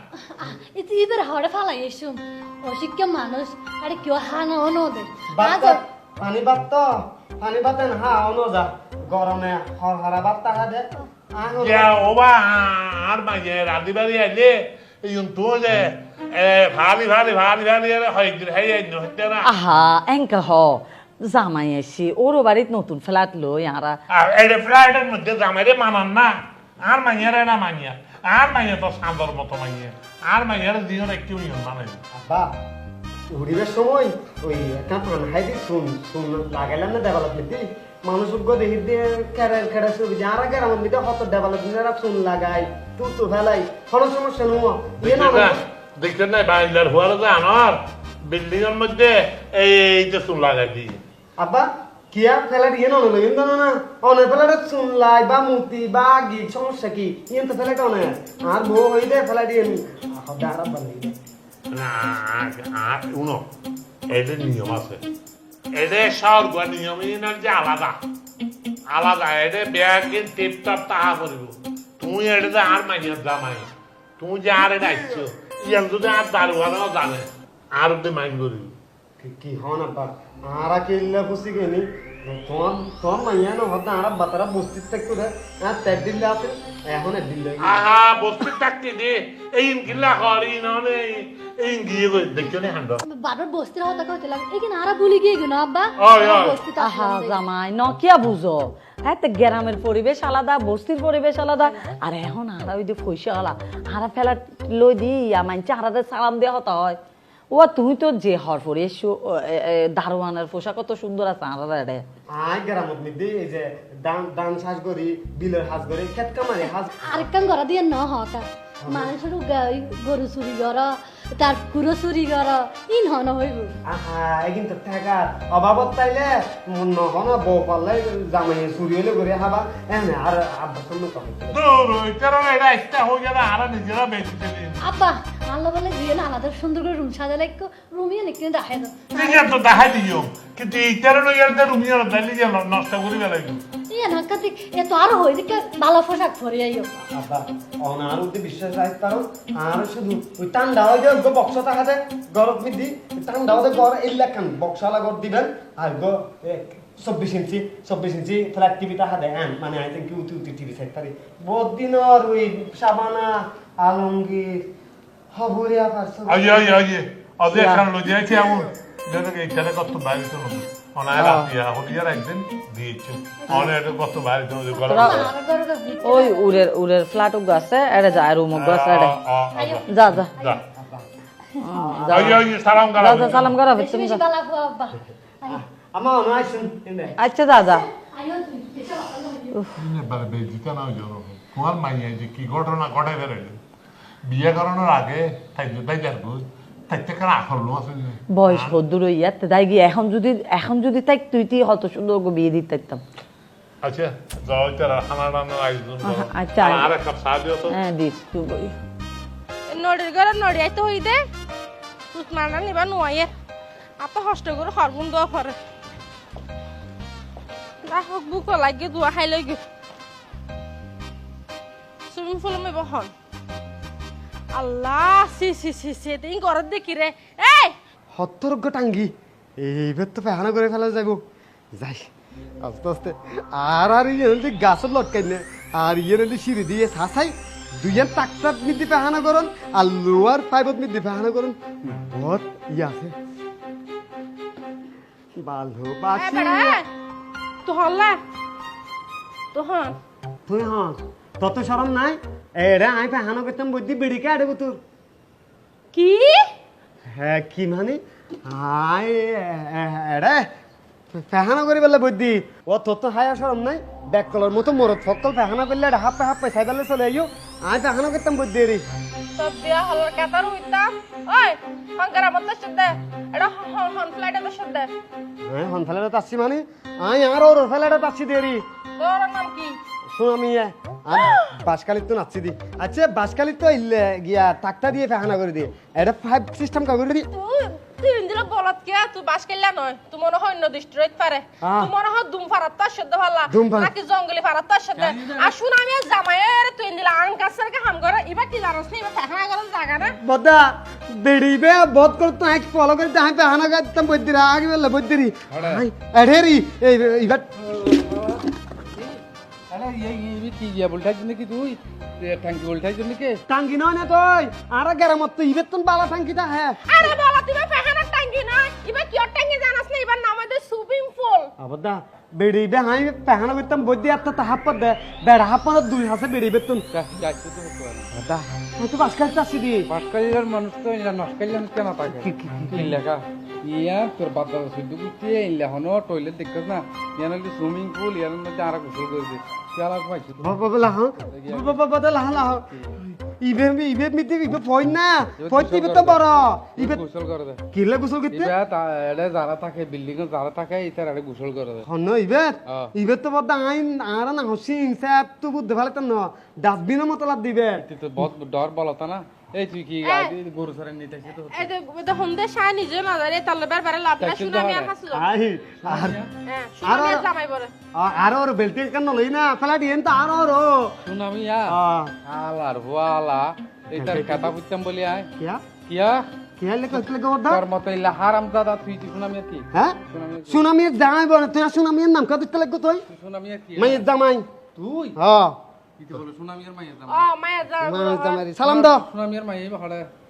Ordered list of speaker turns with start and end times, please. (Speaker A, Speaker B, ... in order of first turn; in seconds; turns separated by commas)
Speaker A: 0.3-5.8, Speaker B: 5.3-12.0, Speaker C: 11.6-19.5, Speaker D: 19.4-24.0, Speaker C: 24.1-32.0, Speaker B: 32.1-32.5, Speaker B: 33.3-45.6, Speaker C: 45.0-51.0, Speaker B: 51.4-61.2, Speaker C: 61.7-63.4, Speaker C: 64.1-65.0, Speaker C: 65.8-67.9, Speaker C: 68.9-78.7, Speaker B: 79.2-87.8, Speaker C: 87.6-93.0, Speaker A: 93.0-97.4, Speaker C: 96.0-96.6, Speaker D: 96.8-107.0, Speaker D: 107.5-112.0, Speaker B: 112.3-116.9, Speaker A: 117.0-123.7, Speaker B: 118.8-119.1, Speaker B: 123.8-131.6, Speaker C: 131.5-134.8, Speaker A: 134.8-139.5, Speaker C: 139.1-143.6, Speaker A: 143.9-146.9, Speaker B: 147.0-164.7, Speaker B: 165.3-166.8, Speaker C: 166.3-175.3, Speaker D: 167.5-167.8, Speaker D: 171.1-171.5, Speaker A: 173.5-173.7, Speaker A: 174.7-176.5, Speaker D: 174.9-175.3, Speaker D: 176.0-179.1, Speaker C: 178.5-180.6, Speaker A: 179.5-180.6, Speaker D: 179.9-180.3, Speaker B: 180.7-181.1, Speaker D: 181.6-184.2, Speaker B: 181.7-182.4, Speaker C: 182.1-183.6, Speaker A: 183.7-185.6, Speaker B: 185.4-187.2, Speaker D: 187.2-187.8, Speaker A: 187.6-189.6, Speaker C: 189.8-193.6, Speaker C: 194.2-198.8, Speaker D: 198.3-203.0, Speaker C: 203.8-207.8, Speaker D: 206.0-206.9, Speaker D: 207.7-208.7, Speaker E: 209.7-211.2, Speaker E: 212.1-213.3, Speaker E: 214.0-215.6, Speaker E: 217.8-219.6, Speaker E: 222.1-223.1, Speaker E: 224.5-227.7, Speaker B: 228.1-231.2, Speaker B: 231.8-232.1, Speaker B: 232.6-243.1, Speaker B: 245.4-246.8, Speaker E: 246.1-246.9, Speaker E: 247.6-248.2, Speaker E: 249.5-249.9, Speaker B: 250.5-254.8, Speaker E: 255.9-256.5, Speaker B: 257.1-260.5, Speaker B: 261.1-268.9, Speaker E: 269.4-274.9, Speaker B: 275.4-278.6, Speaker E: 279.0-279.8, Speaker B: 280.1-287.3, Speaker E: 281.1-281.4, Speaker E: 287.3-300.2, Speaker B: 291.6-291.9, Speaker B: 293.5-293.9, Speaker F: 294.9-295.5, Speaker B: 300.2-307.9, Speaker F: 305.5-305.9, Speaker F: 307.6-308.4, Speaker F: 308.9-313.4, Speaker B: 313.5-316.8, Speaker E: 316.9-321.5, Speaker B: 321.6-326.8, Speaker F: 326.9-328.1, Speaker B: 328.1-329.9, Speaker F: 329.9-340.5, Speaker B: 332.1-333.0, Speaker B: 340.4-347.0, Speaker F: 341.2-341.8, Speaker F: 345.4-347.6, Speaker B: 347.7-348.5, Speaker F: 348.3-351.9, Speaker B: 351.8-357.9, Speaker F: 352.6-352.9, Speaker F: 357.8-361.7, Speaker E: 360.0-360.3, Speaker E: 361.5-365.2, Speaker F: 364.2-364.9, Speaker B: 365.1-366.2, Speaker F: 365.8-366.3, Speaker E: 366.4-367.7, Speaker B: 366.8-367.2, Speaker B: 367.9-371.0, Speaker F: 371.0-375.3, Speaker B: 371.6-372.1, Speaker B: 373.9-374.6, Speaker B: 375.4-375.6, Speaker F: 375.8-376.3, Speaker B: 376.6-377.6, Speaker F: 377.0-380.6, Speaker B: 379.7-383.1, Speaker F: 383.1-384.0, Speaker B: 383.8-384.5, Speaker F: 384.8-385.2, Speaker B: 385.1-385.6, Speaker F: 386.0-387.3, Speaker E: 387.1-388.5, Speaker B: 387.8-389.1, Speaker F: 388.5-390.1